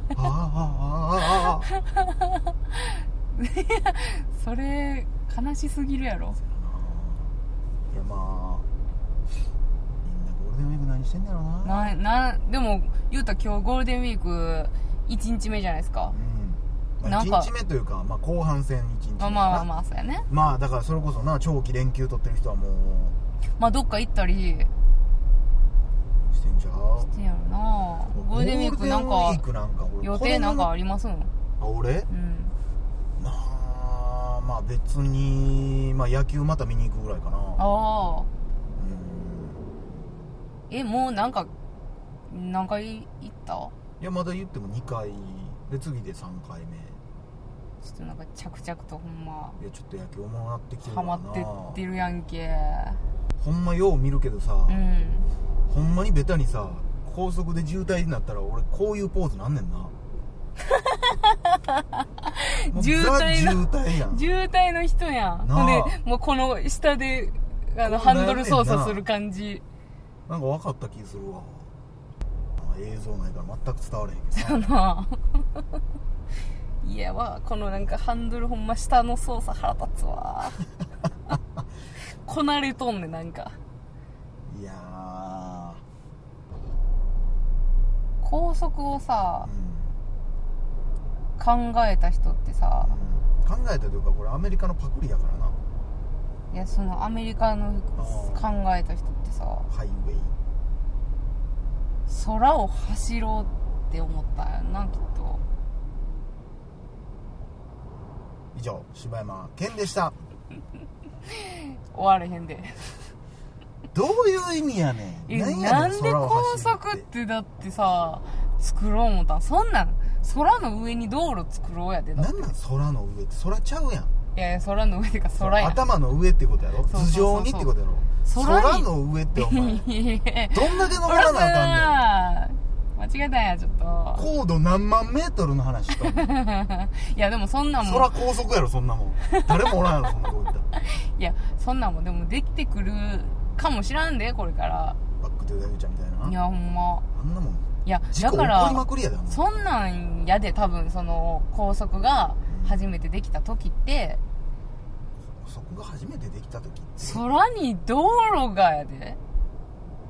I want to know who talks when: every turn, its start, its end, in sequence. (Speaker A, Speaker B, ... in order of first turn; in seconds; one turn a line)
Speaker A: 0.1-1.7
Speaker B: 1.9-6.4
Speaker A: 6.4-7.3
Speaker A: 7.9-8.7
Speaker A: 10.0-12.0
Speaker B: 11.6-16.1
Speaker A: 16.1-19.7
Speaker B: 17.0-17.5
Speaker B: 19.2-20.3
Speaker A: 20.3-23.2
Speaker B: 23.6-24.7
Speaker A: 26.3-27.1
Speaker B: 27.1-29.4
Speaker A: 28.1-30.7
Speaker B: 30.0-31.3
Speaker A: 31.6-32.1
Speaker B: 32.1-32.5
Speaker A: 33.2-37.6
Speaker B: 37.6-38.3
Speaker A: 38.8-39.7
Speaker B: 40.7-41.5
Speaker B: 42.3-43.7
Speaker A: 44.0-47.0
Speaker B: 47.8-49.6
Speaker A: 49.6-51.8
Speaker B: 50.8-53.0
Speaker A: 53.4-54.8
Speaker B: 54.7-55.3
Speaker A: 55.7-59.9
Speaker B: 60.7-69.6
Speaker A: 62.7-64.3
Speaker A: 65.4-66.0
Speaker A: 67.8-69.0
Speaker A: 70.3-71.7
Speaker A: 72.6-74.7
Speaker B: 74.3-75.6
Speaker B: 76.8-80.6
Speaker B: 82.0-83.6
Speaker A: 84.5-85.8
Speaker B: 88.2-89.5
Speaker A: 89.4-90.0
Speaker B: 91.4-92.9
Speaker A: 92.8-95.6
Speaker B: 96.5-99.7
Speaker A: 98.0-98.6
Speaker A: 99.7-100.3
Speaker B: 102.1-105.4
Speaker A: 108.5-110.2
Speaker B: 111.3-113.1
Speaker A: 113.9-117.1
Speaker B: 115.3-122.4
Speaker A: 122.2-124.1
Speaker B: 124.3-125.8
Speaker A: 125.3-129.9
Speaker B: 126.9-127.7
Speaker B: 128.2-134.2
Speaker A: 130.5-132.1
Speaker A: 134.1-136.3
Speaker B: 136.1-138.1
Speaker A: 137.8-140.7
Speaker B: 140.8-145.0
Speaker A: 145.2-146.4
Speaker B: 146.2-147.0
Speaker A: 147.1-149.4
Speaker B: 147.8-154.2
Speaker A: 152.5-153.0
Speaker A: 155.4-157.2
Speaker B: 157.0-159.2